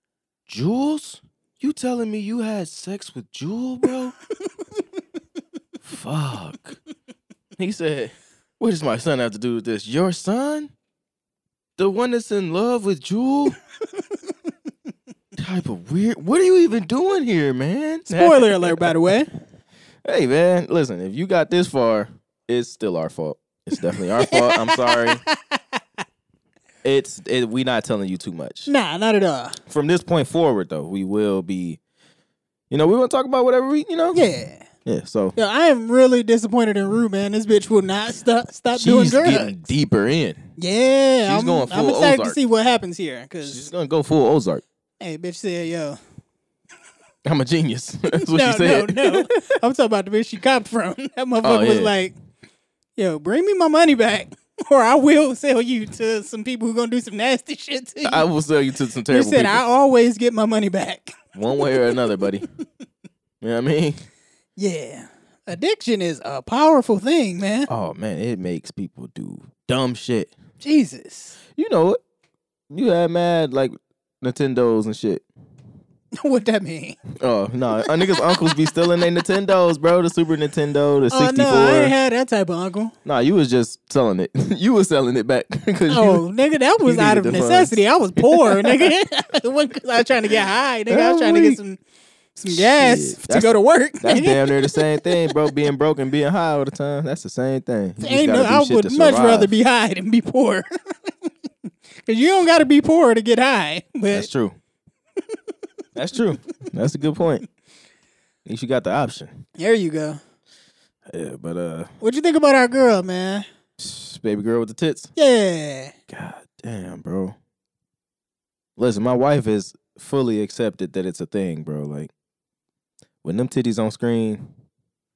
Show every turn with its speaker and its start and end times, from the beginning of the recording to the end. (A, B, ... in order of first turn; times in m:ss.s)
0:00.5-0:04.2 A
0:05.8-0:06.8 A
0:07.6-0:10.7 A
0:11.8-0:13.6 A
0:15.4-0:19.1 A
0:18.1-0:19.3 B
0:20.0-0:25.2 A
0:24.2-0:25.6 B
0:26.8-0:28.7 A
0:28.7-0:29.6 B
0:29.7-0:31.8 A
0:32.7-0:34.2 A
0:34.1-0:34.7 B
0:34.8-0:35.4 A
0:35.4-0:39.7 B
0:38.8-0:40.4 A
0:40.6-0:43.7 B
0:41.3-0:42.4 A
0:43.4-0:44.6 A
0:45.0-0:46.0 B
0:47.2-0:49.5 A
0:48.2-0:52.2 B
0:51.4-0:51.9 A
0:53.0-0:58.3 B
0:58.0-0:59.6 A
0:59.1-1:02.0 B
1:01.4-1:02.5 A
1:03.4-1:04.0 A
1:04.6-1:07.7 B
1:07.7-1:10.4 A
1:10.6-1:11.4 B
1:11.6-1:12.0 A
1:12.7-1:15.2 A
1:16.2-1:17.0 B
1:17.2-1:21.9 A
1:17.7-1:18.7 B
1:21.1-1:22.9 B
1:23.0-1:26.2 A
1:25.9-1:31.8 B
1:26.8-1:28.9 A
1:30.9-1:31.6 A
1:32.4-1:35.5 B
1:32.5-1:39.5 A
1:38.0-1:41.1 B
1:42.1-1:44.3 B
1:44.1-1:44.6 A
1:46.0-1:47.5 A
1:48.4-1:49.4 A
1:49.6-1:50.2 B
1:51.1-1:51.9 A
1:52.0-1:53.4 B
1:53.8-1:55.1 A
1:55.2-1:55.9 B
1:56.1-1:57.4 A
1:58.8-2:02.1 A
2:03.2-2:04.5 A